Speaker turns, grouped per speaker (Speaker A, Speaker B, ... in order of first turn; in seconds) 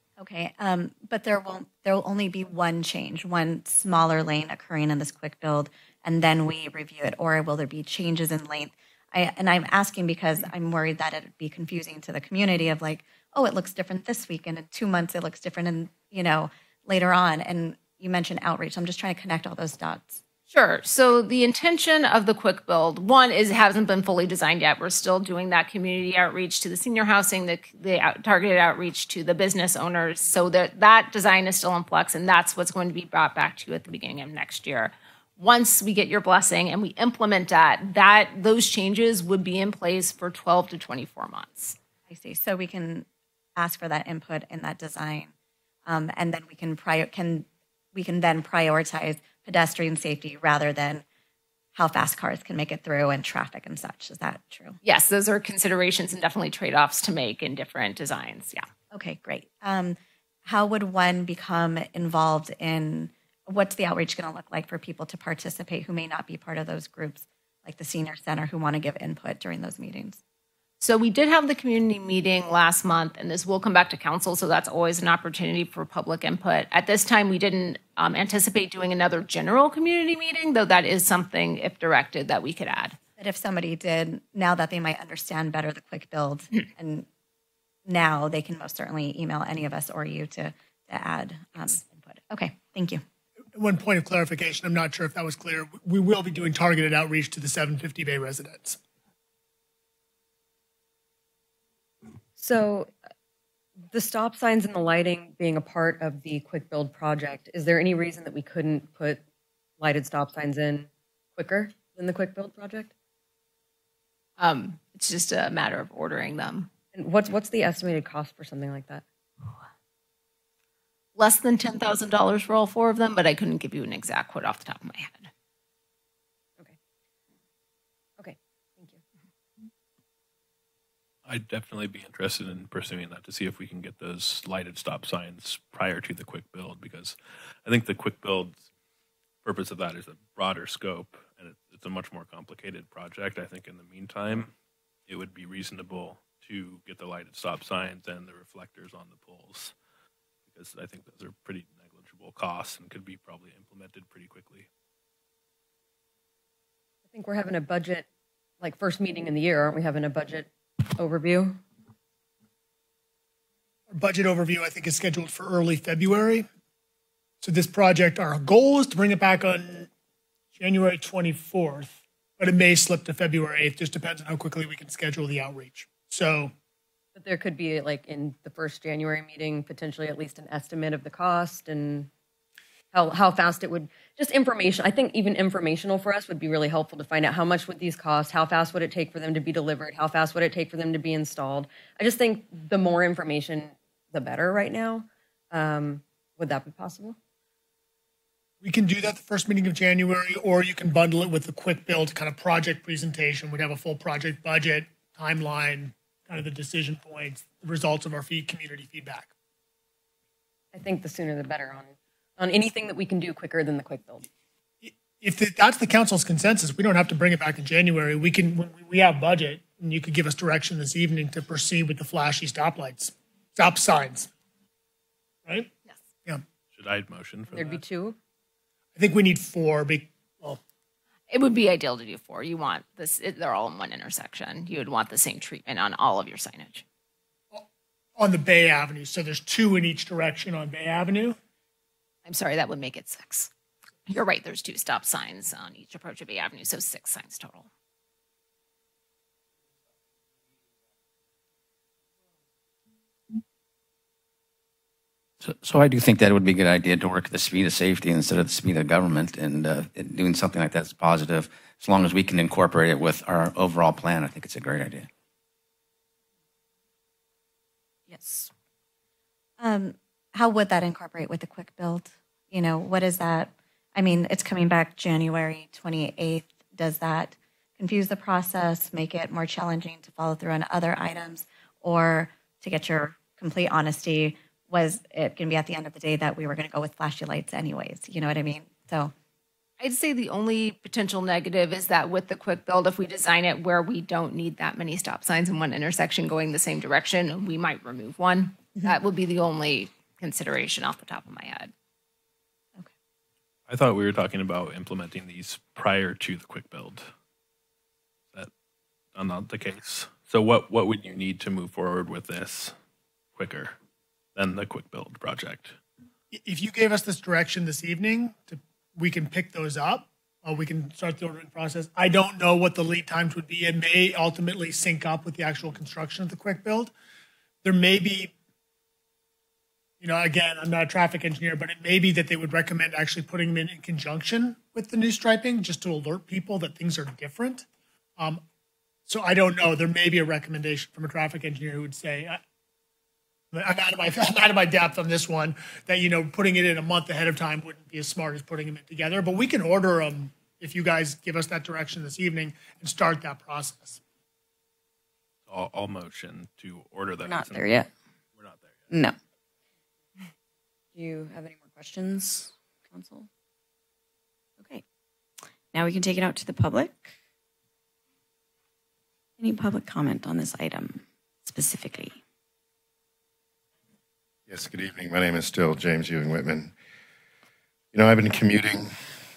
Speaker A: 0.2-20.2, 42.1-45.3, 45.9-51.0, 51.8-54.8, 58.9-70.2, 83.2-87.1, 87.9-93.0, 269.6-289.1
Speaker B: 20.5-41.8, 54.8-58.7, 70.8-83.0, 114.4-116.7, 121.2-125.3, 231.3-236.8, 242.2-243.5, 244.1-247.7, 289.8-301.7
Speaker C: 93.5-98.8, 163.9-166.5, 167.4-169.9, 170.6-176.5, 198.6-209.3, 214.8-224.3, 225.5-225.7, 229.0-230.6, 238.2-241.4, 316.3-326.9, 327.6-328.3, 330.0-337.7, 339.1-342.4, 343.5-354.0
Speaker D: 102.4-102.9, 103.9-109.2, 109.8-112.9, 116.9-119.0, 128.2-129.0, 157.1-158.1, 158.6-161.6, 177.2-182.1, 182.9-197.2, 210.7-214.3, 227.5-228.2
Speaker E: 131.2-138.7, 139.4-144.5, 145.1-149.7, 150.5-154.7, 226.7-227.8, 303.7-307.1, 309.1-312.8, 313.4-313.8, 314.4-315.8, 355.5-357.8, 358.3-358.9
Speaker F: 255.4-265.1
Speaker G: 268.1-268.5, 357.2-357.9, 360.9-363.3, 365.7-367.1, 369.4-372.2
Speaker H: 374.5-376.7, 377.9-378.9